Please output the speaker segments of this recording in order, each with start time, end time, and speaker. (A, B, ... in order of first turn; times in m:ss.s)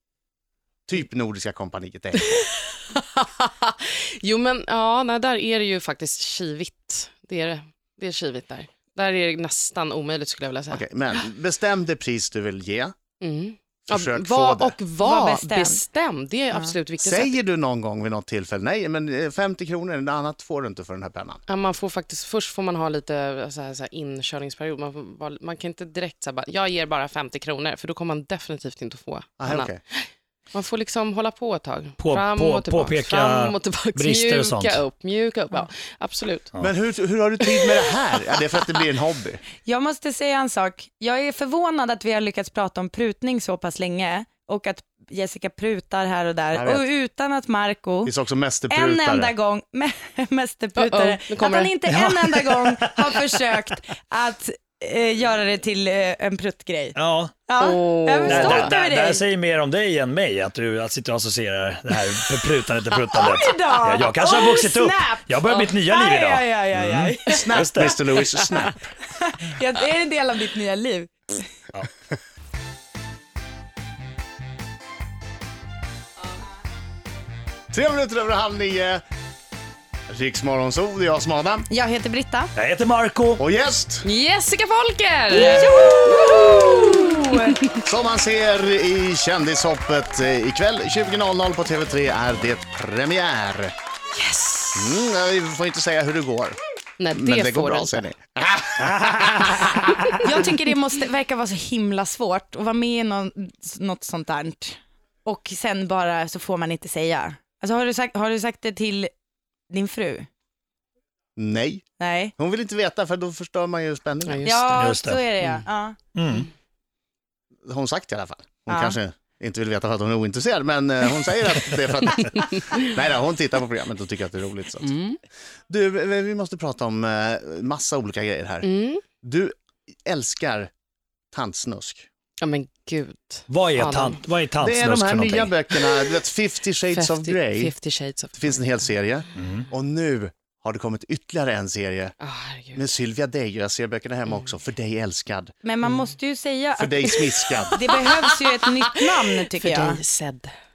0:00.9-0:02.5 A
0:02.2-0:10.9 B
0:10.7-0:13.0 A
0:13.2-0:17.4 B
0:13.9-0:14.8 A
0:15.0-0:15.8 C
0:17.0-0:21.4 A
0:21.5-0:36.5 B
0:29.4-0:29.8 A
0:32.0-0:34.8 D
0:36.6-0:39.4 A
0:39.6-0:48.1 C
0:46.5-0:46.8 A
0:48.0-0:49.3 A
0:48.7-0:57.0 C
0:50.8-0:51.8 B
0:51.9-0:53.2 D
0:57.0-0:57.3 D
0:57.5-0:59.3 C
0:57.6-0:58.7 B
0:58.3-1:08.0 D
1:03.1-1:11.5 C
1:07.3-1:08.9 A
1:17.7-1:19.0 A
1:20.1-1:21.7 A
1:21.7-1:22.5 C
1:22.6-1:23.4 D
1:23.4-1:24.1 A
1:24.0-1:27.8 B
1:25.3-1:27.6 C
1:27.8-1:33.7 A
1:34.2-1:34.9 B
1:34.7-1:36.6 A
1:37.0-1:38.1 B
1:37.1-1:39.9 A
1:39.0-1:39.3 D
1:40.2-1:49.1 C
1:49.7-1:50.3 C
1:51.4-1:51.9 A
1:52.0-1:52.3 C
1:52.4-1:54.7 A
1:54.3-1:54.6 B
1:54.4-1:56.0 C
1:54.8-1:55.2 D
1:56.2-1:56.5 D
1:57.6-2:04.9 A
1:58.7-1:59.0 C
2:02.1-2:02.9 B
2:04.8-2:05.2 B
2:05.7-2:08.7 A
2:08.6-2:09.0 B
2:09.2-2:10.7 A
2:11.3-2:12.1 A
2:12.4-2:14.2 B
2:13.5-2:15.5 D
2:14.6-2:17.7 A
2:16.9-2:18.9 B
2:18.4-2:22.1 A
2:19.4-2:19.7 D
2:22.2-2:22.9 B
2:22.8-2:25.5 A
2:25.6-2:30.0 C
2:26.8-2:27.8 A
2:27.7-2:30.5 B